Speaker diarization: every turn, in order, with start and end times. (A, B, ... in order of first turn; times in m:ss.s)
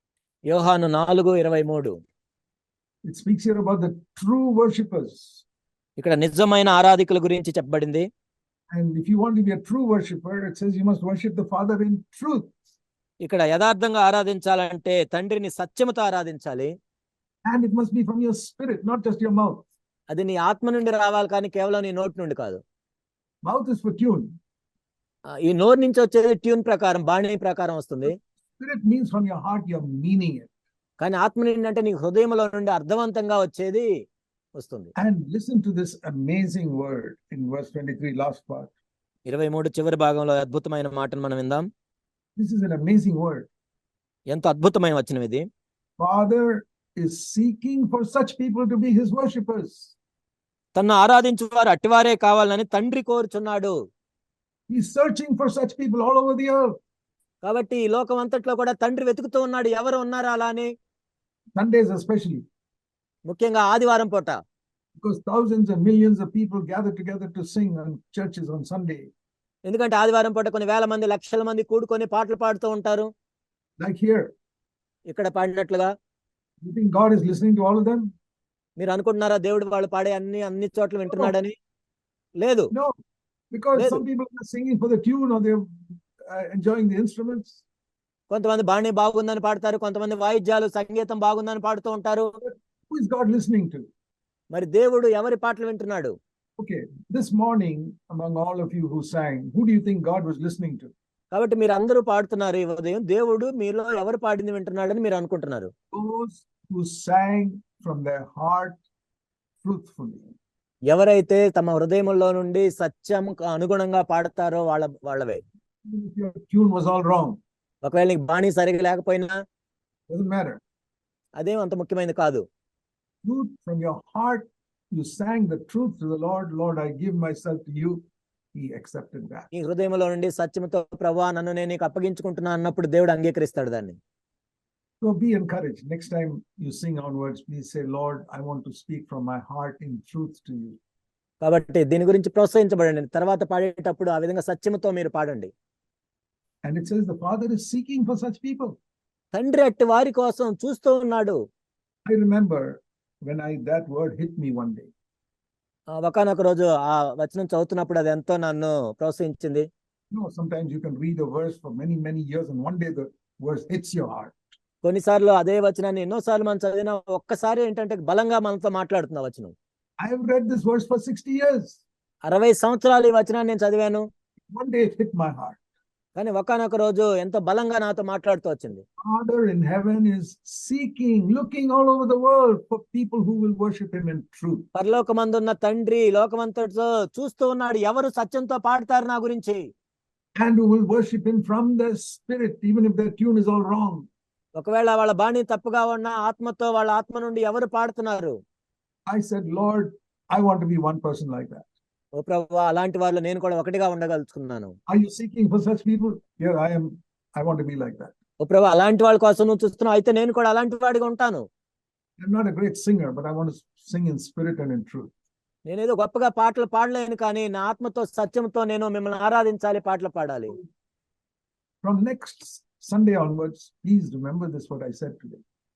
0:00.5-0:01.9 A
0:03.0-0:05.4 B
0:06.0-0:08.1 A
0:08.7-0:12.5 B
0:13.2-0:16.7 A
0:17.4-0:19.6 B
0:20.1-0:22.6 A
0:23.4-0:24.3 B
0:25.4-0:28.1 A
0:28.1-0:30.5 B
0:31.0-0:33.9 A
0:34.6-0:34.9 A
0:35.0-0:38.7 B
0:39.3-0:41.7 A
0:42.4-0:43.5 B
0:44.3-0:45.4 A
0:46.0-0:49.9 B
0:50.7-0:53.8 A
0:54.7-0:56.8 B
0:57.4-1:00.7 A
1:01.6-1:02.4 B
1:03.3-1:04.4 A
1:05.0-1:09.1 B
1:09.7-1:13.1 A
1:13.8-1:14.3 B
1:15.1-1:15.9 A
1:16.6-1:18.1 B
1:18.8-1:21.5 A
1:21.1-1:21.3 B
1:22.4-1:22.7 A
1:23.5-1:27.6 B
1:23.8-1:24.0 A
1:28.3-1:32.3 A
1:32.4-1:33.9 B
1:34.5-1:36.1 A
1:36.6-1:40.9 B
1:41.3-1:45.7 A
1:45.9-1:48.8 B
1:49.6-1:50.3 B
1:50.9-1:55.4 A
1:55.8-1:57.4 B
1:57.8-1:59.4 A
2:00.1-2:00.6 B
2:01.4-2:02.4 A
2:03.2-2:08.0 B
2:08.5-2:09.5 B
2:09.5-2:14.0 A
2:15.0-2:20.8 B
2:21.4-2:25.5 A
2:26.6-2:28.8 B
2:29.3-2:31.4 A
2:32.0-2:34.9 B
2:36.0-2:39.7 A
2:40.1-2:44.3 B
2:44.8-2:49.5 A
2:50.0-2:51.8 B
2:52.2-2:54.0 A
2:54.5-2:55.6 B
2:56.1-2:58.8 A
2:59.0-3:04.7 B
3:04.7-3:09.6 A
3:10.4-3:14.0 B
3:14.5-3:18.4 A
3:19.1-3:21.7 B
3:22.2-3:24.7 A
3:24.9-3:28.1 B
3:28.4-3:31.4 A
3:32.2-3:35.1 B
3:35.7-3:40.5 A
3:41.8-3:45.4 B